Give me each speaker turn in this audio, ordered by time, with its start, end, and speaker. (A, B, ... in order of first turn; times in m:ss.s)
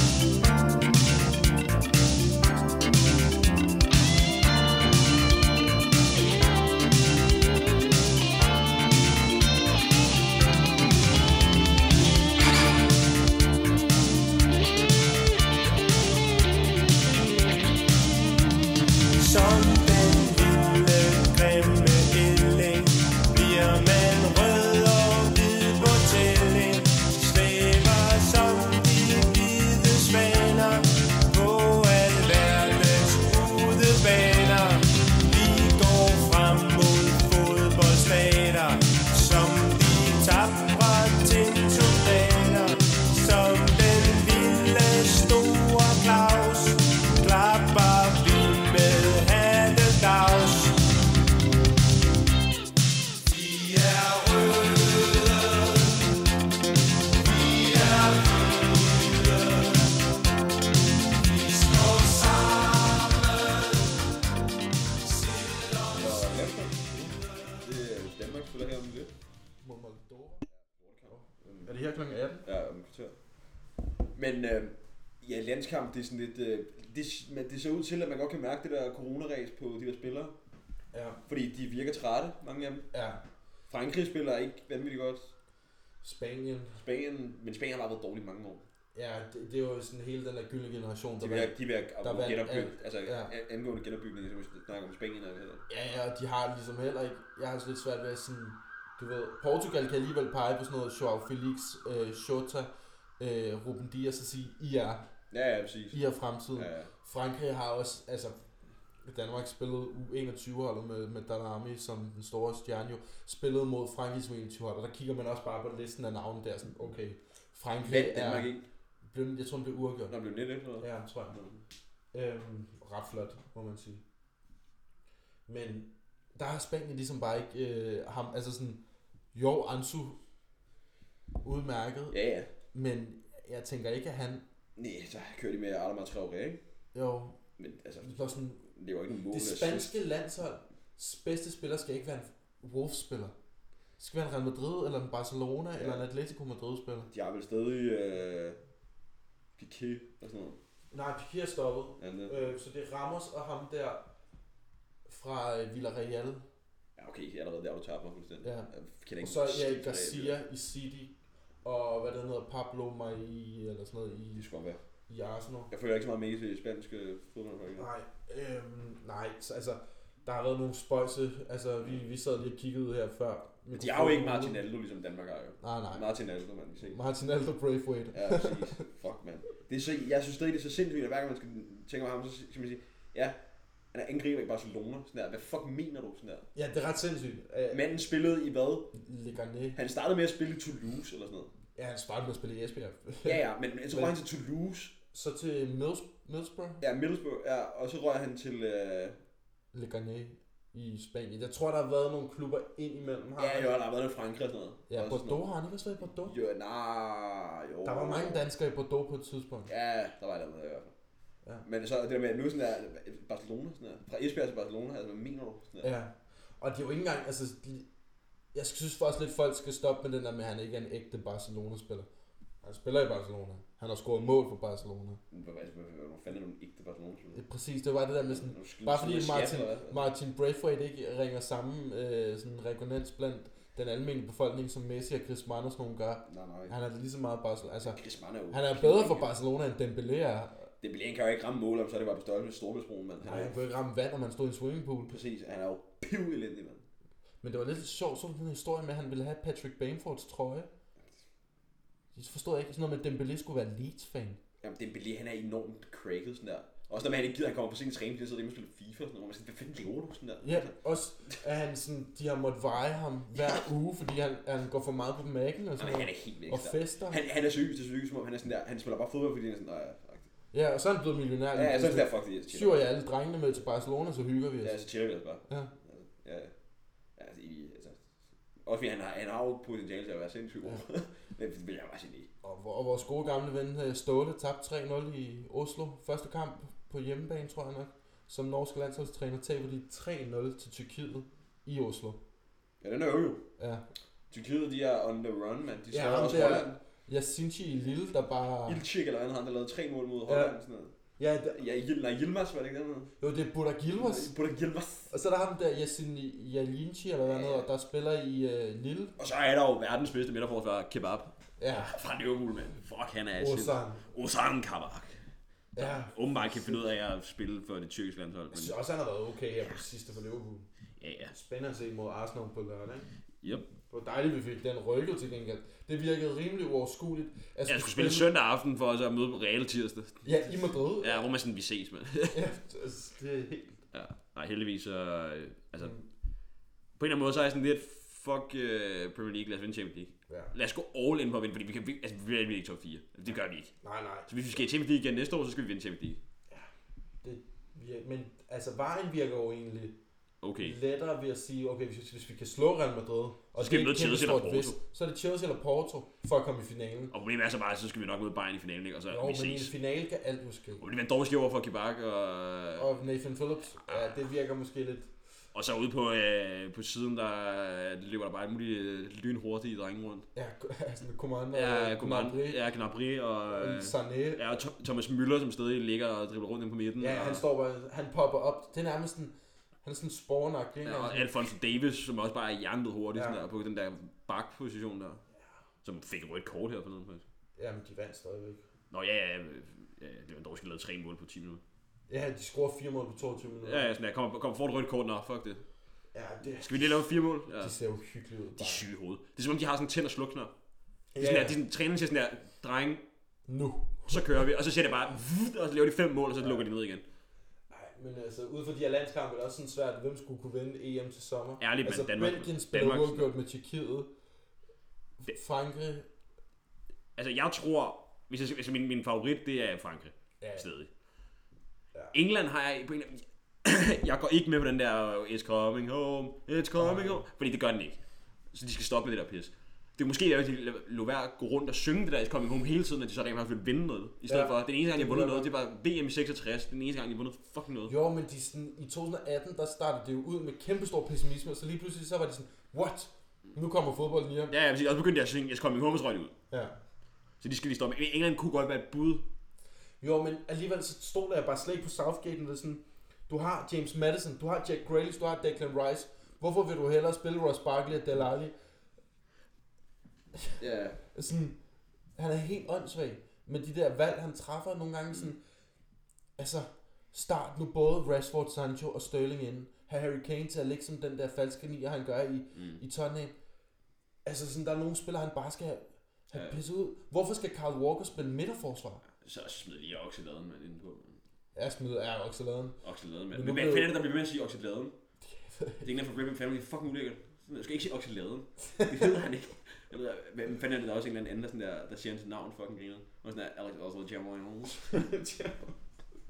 0:19.2-0:50.8 A
0:54.0-0:54.5 A
1:05.9-1:07.0 B
1:06.9-1:07.1 C
1:07.6-1:09.1 B
1:09.6-1:10.4 C
1:10.5-1:11.7 B
1:11.1-1:12.5 C
1:12.4-1:13.2 B
1:14.1-1:20.4 B
1:20.9-1:21.2 C
1:21.3-1:22.9 B
1:22.9-1:23.2 C
1:23.7-1:25.3 B
1:26.0-1:26.8 C
1:26.8-1:28.6 B
1:28.9-1:33.3 C
1:31.2-1:35.6 B
1:35.7-1:45.1 C
1:45.3-1:46.0 B
1:45.9-1:48.4 C
1:46.5-1:46.9 B
1:49.0-1:58.5 C
1:57.8-1:58.7 B
1:59.1-2:00.2 C
2:00.1-2:01.6 B
2:00.8-2:01.4 C
2:02.1-2:04.0 C
2:05.5-2:10.2 C
2:11.4-2:12.2 C
2:12.1-2:12.5 B
2:12.7-2:14.4 C
2:14.8-2:16.6 B
2:16.9-2:17.4 C
2:17.6-2:20.0 B
2:18.0-2:18.6 C
2:19.3-2:23.4 C
2:24.0-2:27.1 C
2:25.7-2:26.0 B
2:27.1-2:28.6 B
2:29.6-2:30.6 B
2:30.9-2:34.1 C
2:32.0-2:32.5 B
2:35.1-2:36.4 C
2:37.0-2:40.4 B
2:38.4-2:44.5 C
2:44.4-2:44.8 B
2:45.1-2:45.7 C
2:45.7-2:47.9 B
2:47.8-2:54.6 C
2:53.7-2:57.0 B
2:55.6-2:56.1 C
2:56.9-2:58.8 C
2:58.1-3:03.4 B
3:03.9-3:06.5 B
3:06.6-3:07.9 C
3:07.7-3:08.9 B
3:08.9-3:09.8 C
3:09.8-3:11.5 B
3:11.8-3:14.1 C
3:13.2-3:15.0 B
3:15.1-3:16.8 C
3:16.8-3:19.2 B
3:19.7-3:23.8 C
3:23.4-3:25.4 B
3:24.9-3:26.4 C
3:26.2-3:28.4 B
3:27.8-3:29.7 C
3:29.7-3:30.9 B
3:31.6-3:35.9 B
3:35.8-3:37.9 C
3:38.5-3:42.1 C
3:42.6-3:45.2 C
3:45.3-3:47.4 B
3:47.3-4:00.7 C
3:48.2-3:50.1 B
3:56.3-3:56.8 B
3:57.8-3:59.3 B
4:00.8-4:03.6 B
4:03.2-4:05.2 C
4:05.1-4:06.8 B
4:07.4-4:10.7 C
4:12.1-4:14.4 C
4:14.6-4:20.7 B
4:20.4-4:27.2 C
4:25.8-4:30.3 B
4:30.5-4:34.8 C
4:31.5-4:32.9 B
4:34.6-4:36.5 B
4:35.5-4:35.7 C
4:37.2-4:38.0 B
4:38.6-4:42.3 B
4:42.4-4:52.2 C
4:52.8-4:53.4 B
4:53.6-4:53.8 C
4:54.3-4:56.8 B
4:55.9-4:58.8 C
4:58.6-5:00.9 B
5:00.3-5:00.6 C
5:01.2-5:01.6 C
5:01.5-5:03.1 B
5:03.2-5:04.4 C
5:04.0-5:05.1 B
5:05.1-5:09.1 C
5:07.2-5:07.7 B
5:09.2-5:15.2 B
5:11.6-5:12.0 C
5:13.4-5:14.0 C
5:15.7-5:16.9 C
5:15.8-5:18.8 B
5:18.5-5:20.7 C
5:21.0-5:21.4 B
5:21.3-5:23.1 C
5:23.4-5:23.7 B
5:23.9-5:28.3 C
5:27.7-5:32.4 B
5:30.2-5:31.3 C
5:32.3-5:33.8 C
5:33.9-5:36.0 B
5:35.8-5:36.1 C
5:37.0-5:43.7 B
5:40.3-5:40.5 C
5:43.8-5:44.3 C
5:44.3-5:46.2 B
5:47.2-5:50.0 C
5:50.4-5:50.8 B
5:50.6-5:57.1 C
5:53.6-5:54.8 B
5:57.1-5:59.7 B
5:59.1-6:00.8 C
6:00.8-6:02.9 B
6:02.8-6:05.1 C
6:03.8-6:04.2 B
6:05.5-6:10.3 B
6:10.4-6:12.6 C
6:11.5-6:17.4 B
6:13.5-6:14.4 C
6:17.0-6:21.3 C
6:20.8-6:25.2 B
6:23.1-6:23.4 C
6:25.8-6:27.2 B
6:27.6-6:28.6 C
6:28.9-6:31.6 B
6:32.1-6:33.9 C
6:33.6-6:35.6 B
6:36.1-6:38.9 C
6:36.5-6:37.8 B
6:38.6-6:40.5 B
6:41.1-6:41.6 C
6:41.2-6:43.0 B
6:43.5-6:44.4 C
6:44.1-6:47.0 B
6:47.7-6:54.1 C
6:51.6-6:53.3 B
6:55.2-6:56.1 C
6:57.2-7:00.9 B
7:00.4-7:00.7 C
7:02.1-7:08.0 B
7:06.8-7:07.2 C
7:08.5-7:17.9 B
7:14.3-7:15.5 C
7:17.9-7:24.5 C
7:24.5-7:26.3 B
7:26.5-7:26.8 C
7:27.4-7:29.3 B
7:30.0-7:38.5 C
7:40.4-7:41.6 C
7:40.6-7:41.0 B
7:42.2-7:45.4 C
7:46.4-7:53.4 C
7:52.5-7:52.8 B
7:54.2-7:59.0 C
7:56.3-7:56.6 B
7:59.2-8:01.2 B
8:01.6-8:02.8 C
8:02.8-8:05.0 B
8:03.3-8:03.9 C
8:05.3-8:05.9 C
8:05.8-8:14.9 B
8:08.7-8:09.1 C
8:14.8-8:15.8 C